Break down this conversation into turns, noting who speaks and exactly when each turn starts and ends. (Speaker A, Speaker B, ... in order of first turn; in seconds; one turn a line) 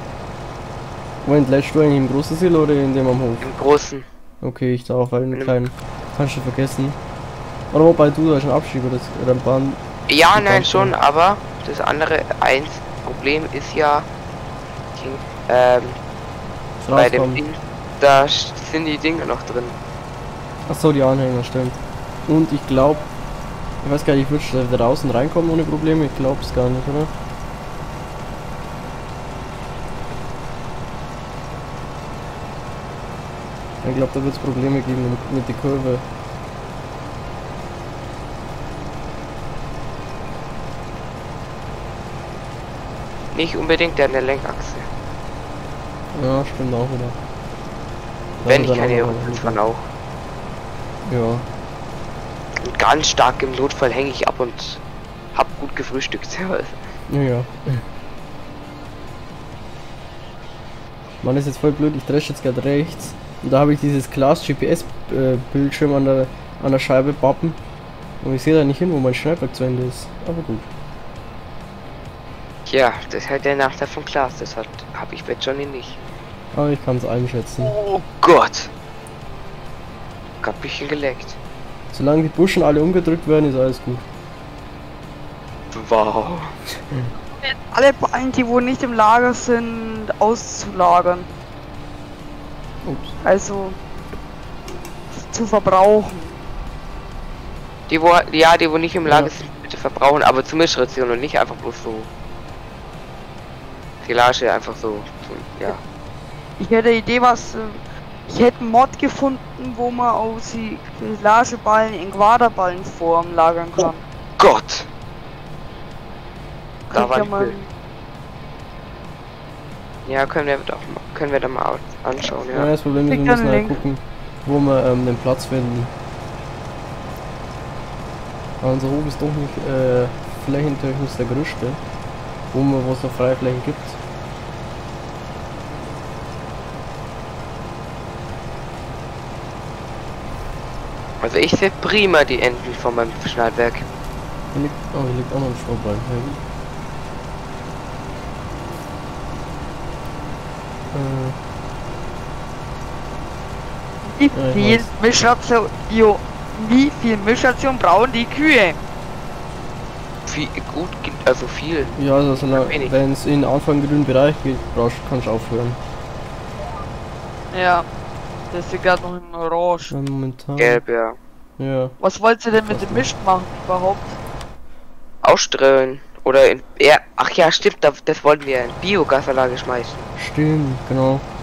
Speaker A: 1.2-3.5
Speaker B: 3.4-4.0
Speaker A: 4.4-7.0
Speaker A: 7.7-9.8
Speaker B: 10.1-14.1
Speaker A: 10.3-10.9
Speaker B: 14.9-16.0
Speaker A: 16.8-17.4
Speaker B: 16.9-19.8
Speaker A: 20.7-23.1
Speaker A: 23.8-27.1
Speaker A: 33.8-36.0
Speaker B: 43.3-44.9
Speaker A: 46.1-47.1
Speaker A: 48.4-49.6
Speaker B: 48.5-49.8
Speaker A: 51.1-51.4
Speaker B: 52.6-54.8
Speaker B: 55.3-56.9
Speaker A: 57.1-57.8
Speaker A: 61.2-67.6
Speaker A: 68.2-70.7
Speaker B: 72.7-76.0
Speaker A: 76.5-77.7
Speaker B: 77.6-78.7
Speaker B: 80.4-81.4
Speaker A: 81.9-84.0
Speaker B: 85.7-86.5
Speaker C: 87.4-91.3
Speaker A: 92.8-93.1
Speaker C: 93.2-93.8
Speaker C: 95.1-96.4
Speaker B: 97.9-102.1
Speaker A: 99.0-99.3
Speaker B: 104.0-105.8
Speaker C: 106.6-114.0
Speaker B: 114.4-114.9
Speaker C: 116.9-117.7
Speaker B: 116.9-117.5
Speaker B: 120.0-122.7
Speaker A: 122.5-125.9
Speaker C: 123.1-123.8
Speaker A: 128.6-131.8
Speaker A: 132.5-134.0
Speaker B: 141.2-143.9
Speaker A: 144.5-146.4
Speaker A: 150.9-151.4
Speaker C: 154.0-158.8
Speaker A: 154.3-154.9
Speaker B: 160.2-161.9
Speaker A: 161.9-165.8
Speaker B: 162.5-162.9
Speaker C: 167.5-167.8
Speaker C: 168.5-169.9
Speaker A: 169.9-170.8
Speaker B: 170.6-171.2
Speaker A: 171.6-171.9
Speaker C: 172.0-174.2
Speaker A: 172.7-173.1
Speaker B: 175.2-180.1
Speaker A: 180.2-181.2